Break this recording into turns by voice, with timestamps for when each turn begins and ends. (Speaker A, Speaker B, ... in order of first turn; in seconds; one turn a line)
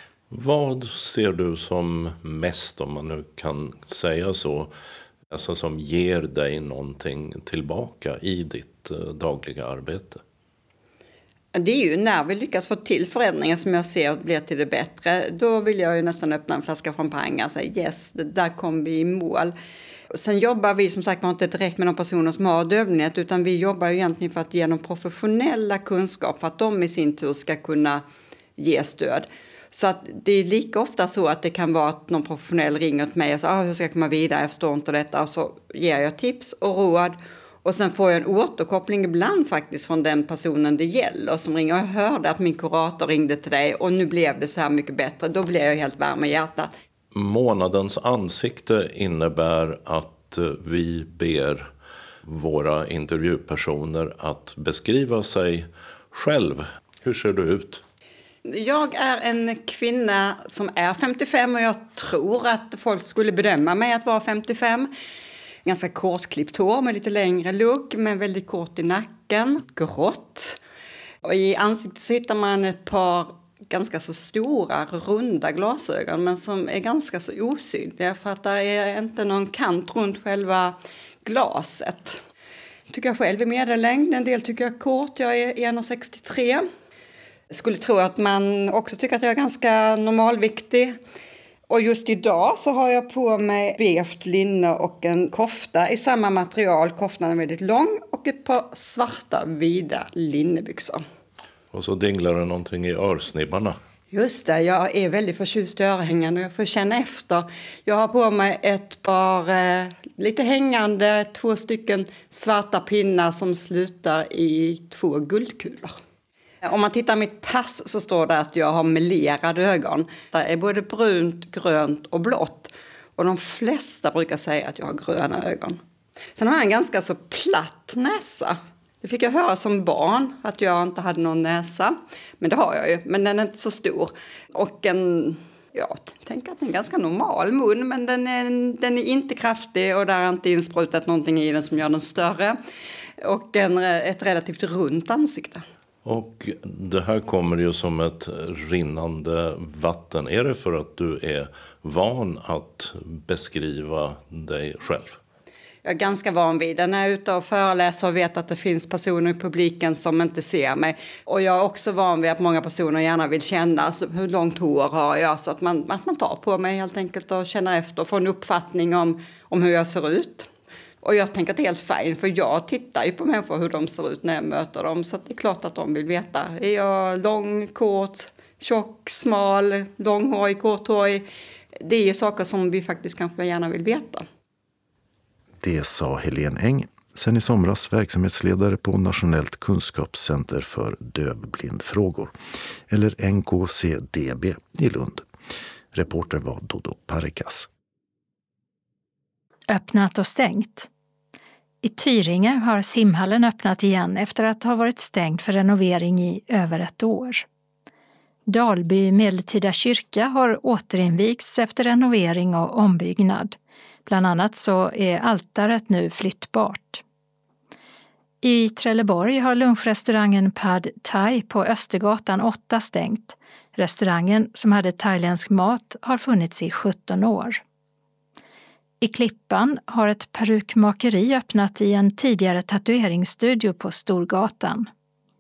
Speaker A: 0.3-4.7
Speaker A: 5.3-10.2
Speaker B: 11.6-19.6
Speaker B: 20.1-28.0
Speaker B: 28.6-46.7
Speaker A: 47.1-51.7
Speaker A: 52.2-57.8
Speaker B: 58.5-64.9
Speaker B: 65.7-70.6
Speaker B: 71.2-82.2
Speaker B: 82.9-86.7
Speaker B: 87.5-91.0
Speaker B: 91.7-101.0
Speaker A: 101.7-103.8
Speaker B: 104.1-116.0
Speaker B: 116.6-125.8
Speaker B: 126.4-142.6
Speaker B: 143.2-145.7
Speaker A: 146.0-155.2
Speaker B: 155.8-170.5
Speaker B: 171.0-181.3
Speaker B: 181.8-184.3
Speaker C: 185.6-192.3
Speaker C: 192.9-195.2
Speaker C: 195.9-197.7
Speaker D: 199.7-200.9
Speaker D: 201.8-207.4
Speaker D: 208.5-217.0
Speaker D: 218.4-227.6
Speaker D: 229.0-234.9